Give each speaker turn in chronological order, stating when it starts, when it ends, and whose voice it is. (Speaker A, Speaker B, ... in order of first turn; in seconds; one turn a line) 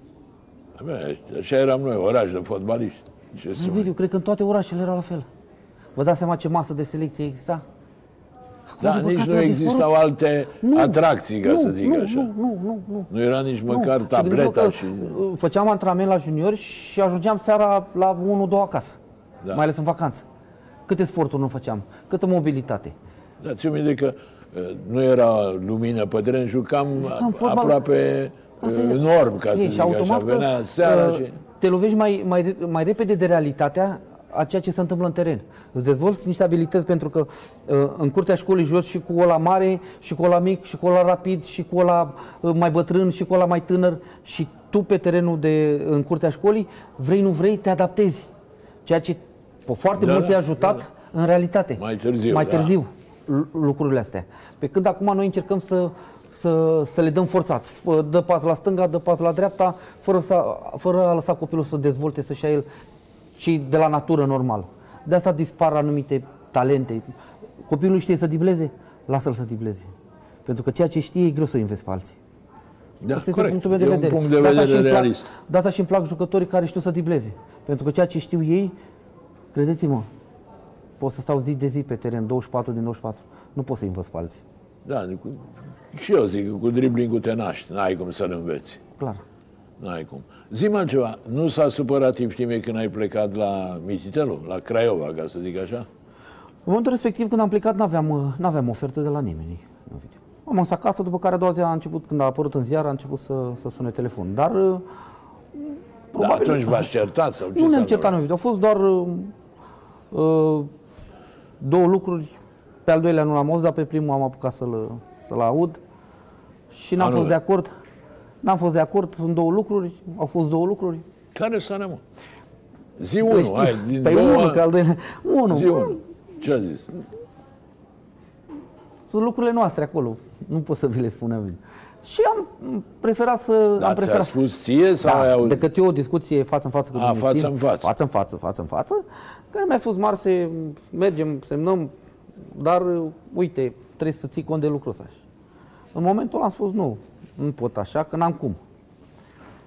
Speaker A: 0.8-3.9
Speaker B: 3.5-5.3
Speaker B: 6.0-7.6
Speaker B: 8.7-9.9
Speaker A: 8.8-12.3
Speaker B: 10.6-13.1
Speaker A: 13.1-15.2
Speaker B: 13.7-19.0
Speaker B: 19.5-20.2
Speaker B: 20.9-22.9
Speaker A: 23.4-31.4
Speaker B: 27.0-27.8
Speaker B: 28.6-48.3
Speaker B: 48.8-62.6
Speaker A: 50.0-50.8
Speaker A: 51.8-52.7
Speaker B: 63.4-67.1
Speaker B: 67.7-69.9
Speaker B: 70.4-72.2
Speaker A: 73.0-75.3
Speaker B: 73.1-78.7
Speaker B: 79.5-80.1
Speaker B: 81.0-84.4
Speaker A: 84.8-88.8
Speaker A: 89.8-95.9
Speaker B: 96.7-104.8
Speaker B: 105.5-106.9
Speaker A: 106.2-108.2
Speaker B: 107.5-109.3
Speaker B: 110.1-110.7
Speaker B: 111.6-112.3
Speaker B: 112.8-115.8
Speaker B: 116.7-117.7
Speaker A: 117.0-117.4
Speaker B: 118.4-121.0
Speaker A: 121.3-122.0
Speaker A: 123.0-124.6
Speaker B: 123.2-126.0
Speaker A: 125.5-126.9
Speaker B: 129.1-134.4
Speaker A: 133.8-135.6
Speaker B: 135.0-141.9
Speaker A: 136.9-137.9
Speaker B: 142.5-145.2
Speaker B: 145.9-148.6